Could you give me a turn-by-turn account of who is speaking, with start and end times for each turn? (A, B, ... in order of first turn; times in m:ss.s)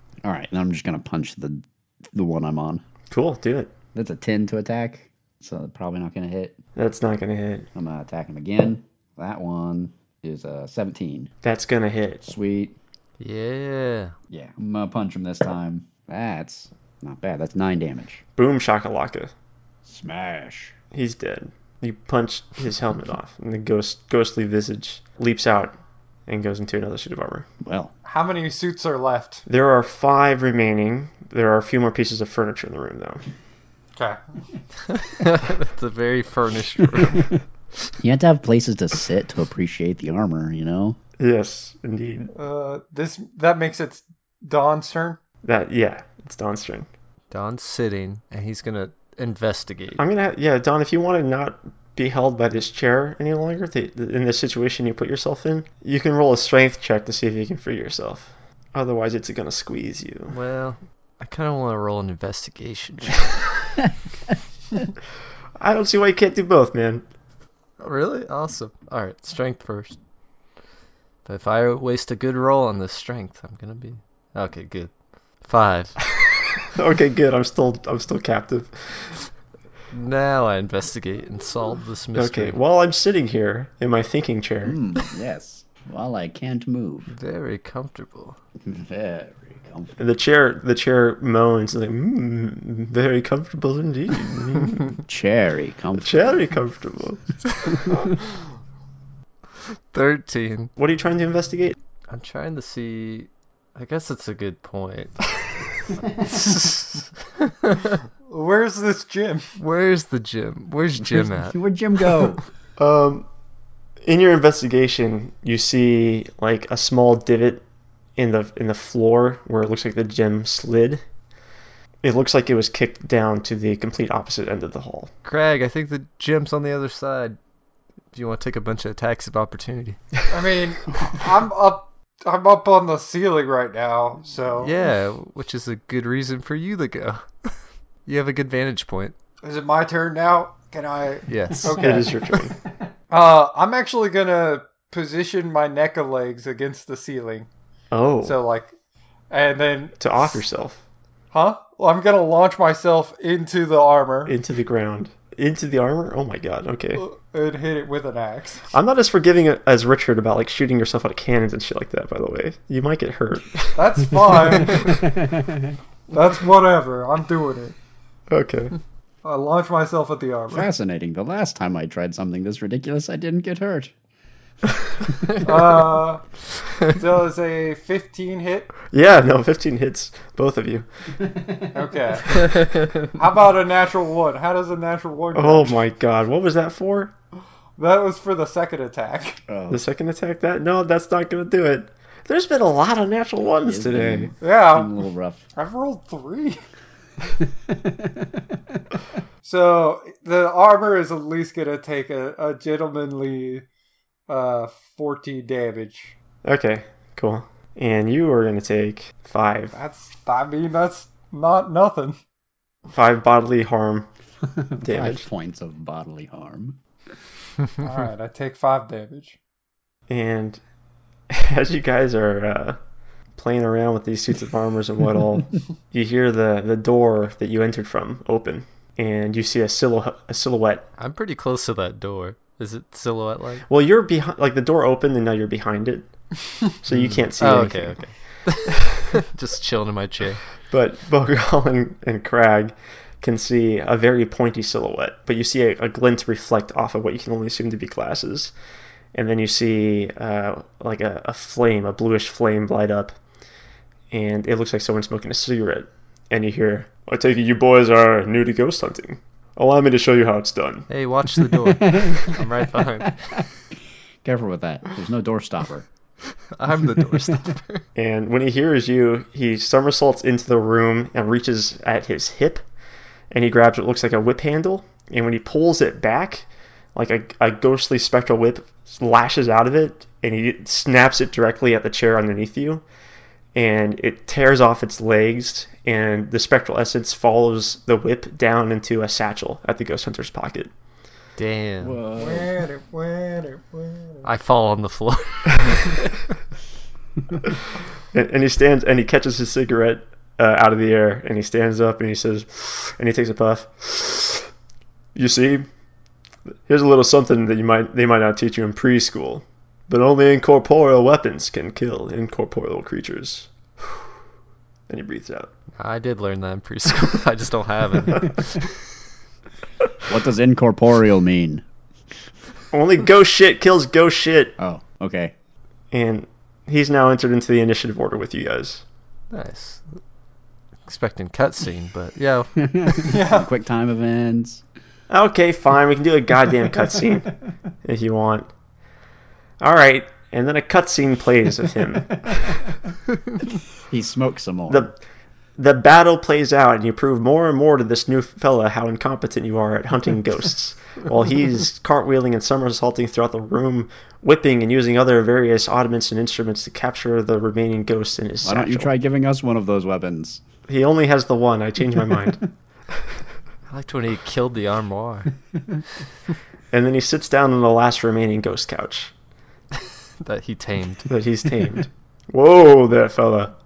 0:00.2-0:02.8 A
0:03.1-0:03.7 B
0:03.9-0:06.6 A
0:06.8-0:07.7 B
0:07.7-0:11.3 A
0:11.4-0:12.2 B
0:12.2-0:12.8 A
0:13.2-0:14.1 C
0:14.3-0:18.2 A
0:18.4-0:19.3 B
0:19.8-0:20.7 A
0:20.9-0:25.7 B
0:26.3-0:27.5 B
0:27.6-0:27.9 A
0:28.0-0:29.4 D
0:29.5-0:33.2 B
0:34.9-0:37.3 C
0:38.0-0:41.0 A
0:41.2-0:42.3 B
0:42.3-0:45.2 D
0:45.4-0:46.9 B
0:47.3-0:50.0 C
0:50.0-1:00.4 B
1:00.3-1:03.4 C
1:05.6-1:07.0 B
1:07.8-1:10.0 C
1:11.2-1:14.9 C
1:15.4-1:16.0 C
1:16.6-1:19.1 B
1:19.9-1:22.6 C
1:22.2-1:24.8 B
1:24.6-1:27.1 A
1:27.1-1:28.4 C
1:28.6-1:29.9 A
1:30.0-1:34.9 B
1:35.0-1:36.2 A
1:36.0-1:37.2 B
1:39.9-1:40.7 C
1:40.8-1:41.8 B
1:42.1-1:45.3 C
1:46.2-1:48.0 C
1:48.3-1:49.5 D
1:49.6-1:51.6 C
1:51.0-1:52.4 A
1:52.8-1:53.3 B
1:54.0-1:57.6 B
1:58.2-2:01.0 B
2:02.0-2:05.1 B
2:05.2-2:07.4 C
2:08.1-2:10.0 C
2:10.3-2:14.7 D
2:14.6-2:17.5 C
2:18.0-2:19.1 C
2:19.4-2:22.1 D
2:21.3-2:21.8 C
2:21.7-2:22.5 B
2:23.1-2:27.5 D
2:27.9-2:28.4 B
2:28.2-2:28.7 D
2:29.3-2:30.1 D
2:30.0-2:30.8 B
2:31.3-2:34.3 D
2:34.2-2:37.0 B
2:36.9-2:38.7 D
2:38.7-2:44.0 B
2:43.8-2:45.0 D
2:45.2-2:45.7 A
2:46.1-2:47.7 D
2:48.3-2:48.7 B
2:49.2-2:50.7 D
2:50.5-2:53.9 A
2:55.4-2:56.2 D
2:56.8-2:58.7 D
2:58.9-3:00.9 B
3:01.7-3:05.8 D
3:02.3-3:03.1 C
3:05.3-3:07.1 B
3:07.8-3:09.4 D
3:09.5-3:09.8 A
3:09.7-3:14.3 B
3:13.6-3:15.4 A
3:14.4-3:15.0 D
3:15.5-3:16.6 D
3:17.7-3:18.3 A
3:19.4-3:23.6 D
3:24.3-3:26.1 D
3:26.4-3:29.7 B
3:29.7-3:32.2 D
3:32.9-3:34.1 B
3:34.6-3:36.8 A
3:34.8-3:35.2 B
3:37.8-3:39.4 D
3:40.1-3:40.6 B
3:41.3-3:42.8 B
3:43.4-3:50.9 B
3:51.0-3:53.6 C
3:53.7-3:56.1 B
3:56.8-3:58.0 B
3:57.4-4:00.4 C
4:00.7-4:08.5 B
4:09.1-4:13.1 B
4:14.1-4:20.9 B
4:20.9-4:23.2 C
4:21.5-4:23.4 A
4:24.2-4:25.9 A
4:26.5-4:27.8 C
4:27.9-4:32.6 B
4:33.3-4:42.8 B
4:43.5-4:50.7 B
4:51.4-4:52.0 C
4:51.8-4:52.6 A
4:52.2-4:54.2 D
4:54.2-4:56.2 C
4:58.1-5:04.5 B
5:05.1-5:05.7 B
5:06.7-5:14.0 B
5:14.9-5:15.5 B
5:15.8-5:18.6 C
5:20.1-5:21.6 A
5:22.7-5:24.5 B
5:24.6-5:25.3 A
5:25.9-5:28.8 B
5:29.3-5:30.0 C
5:30.8-5:32.9 C
5:32.6-5:34.6 A
5:33.0-5:33.5 D
5:35.1-5:37.3 B
5:37.8-5:38.5 B
5:39.6-5:42.7 B
5:43.9-5:44.9 A
5:44.7-5:44.9 B
5:45.6-5:58.9 B
5:58.4-6:00.4 A
6:00.7-6:02.4 B
6:03.7-6:05.3 C
6:06.7-6:09.1 B
6:10.2-6:11.1 C
6:11.1-6:13.5 B